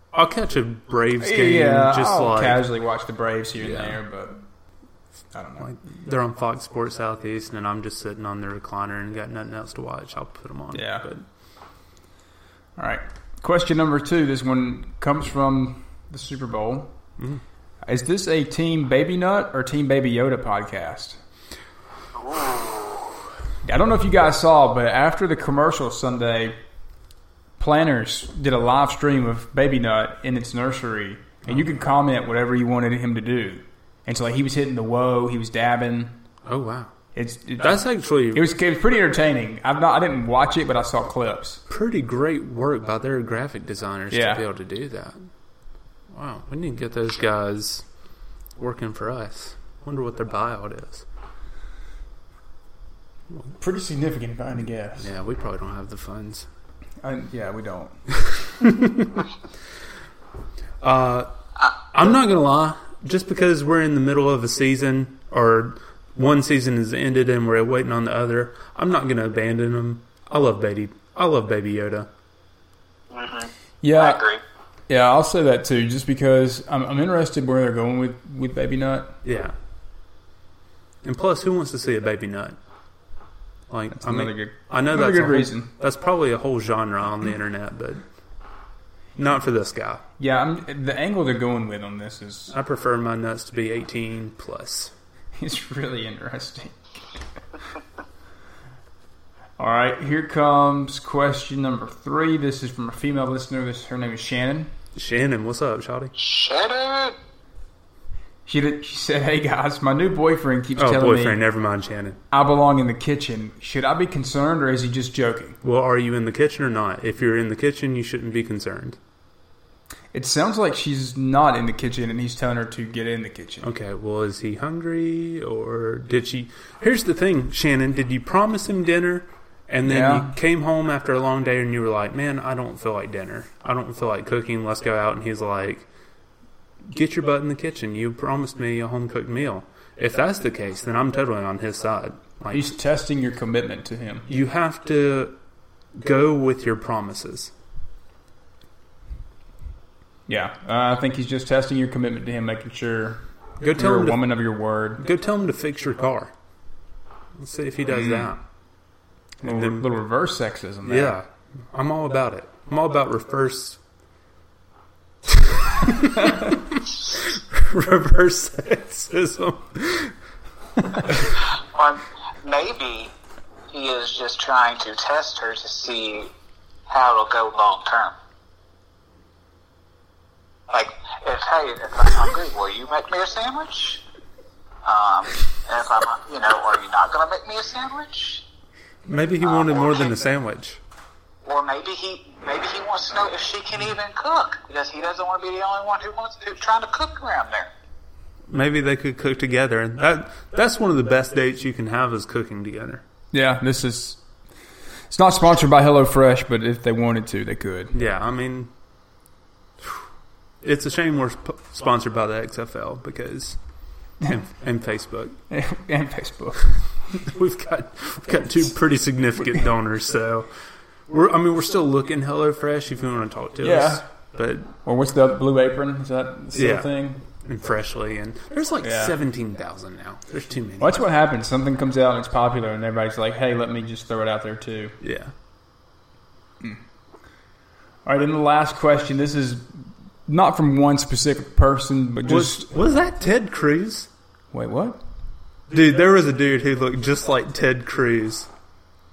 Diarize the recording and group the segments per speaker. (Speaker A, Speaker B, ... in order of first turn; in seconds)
Speaker A: 0.1-2.6, 3.6-4.0, 5.6-11.2, 36.5-36.9, 37.6-38.4, 41.7-45.2, 46.1-47.9, 48.6-51.1, 55.0-56.5, 58.6-59.2, 60.8-61.3, 61.9-72.1, 79.2-79.5, 81.0-82.6, 83.7-88.0, 89.2-90.0, 92.5-94.9, 105.0-106.1, 110.8-112.2, 115.6-119.0, 123.6-135.9, 136.8-142.8, 144.3-145.4, 145.9-147.5, 153.6-154.2, 155.0-156.3, 157.4-158.4, 159.4-159.9, 160.8-163.8, 165.3-170.2, 171.0-171.3, 189.1-190.8, 198.5-203.0, 207.9-208.7, 210.6-213.6, 214.3-215.4, 217.2-220.5, 221.1-224.7, 226.5-231.0, 235.0-235.3, 242.2-244.1, 245.7-248.5
Speaker B: 1.2-4.4, 5.3-5.7, 10.7-11.1, 12.8-16.9, 17.9-21.2, 23.6-26.6, 27.6-36.2, 37.1-41.6, 44.1-44.4, 53.6-55.1, 57.0-58.0, 73.8-74.2, 74.9-79.2, 83.9-85.7, 90.2-92.5, 95.4-96.8, 99.6-104.7, 108.5-111.4, 112.3-115.6, 120.1-123.7, 129.8-130.3, 142.5-144.3, 150.3-155.0, 157.9-158.3, 159.4-161.2, 203.3-204.2, 205.1-208.0, 215.5-216.8, 223.6-224.0, 224.8-227.2, 228.8-229.2, 230.8-235.0, 238.1-242.7, 244.5-245.0
Speaker C: 22.2-23.1, 73.1-74.4, 106.2-107.2, 171.7-173.1, 173.7-176.3, 176.9-178.1, 180.7-184.0, 184.8-188.4, 189.4-190.3, 191.4-197.7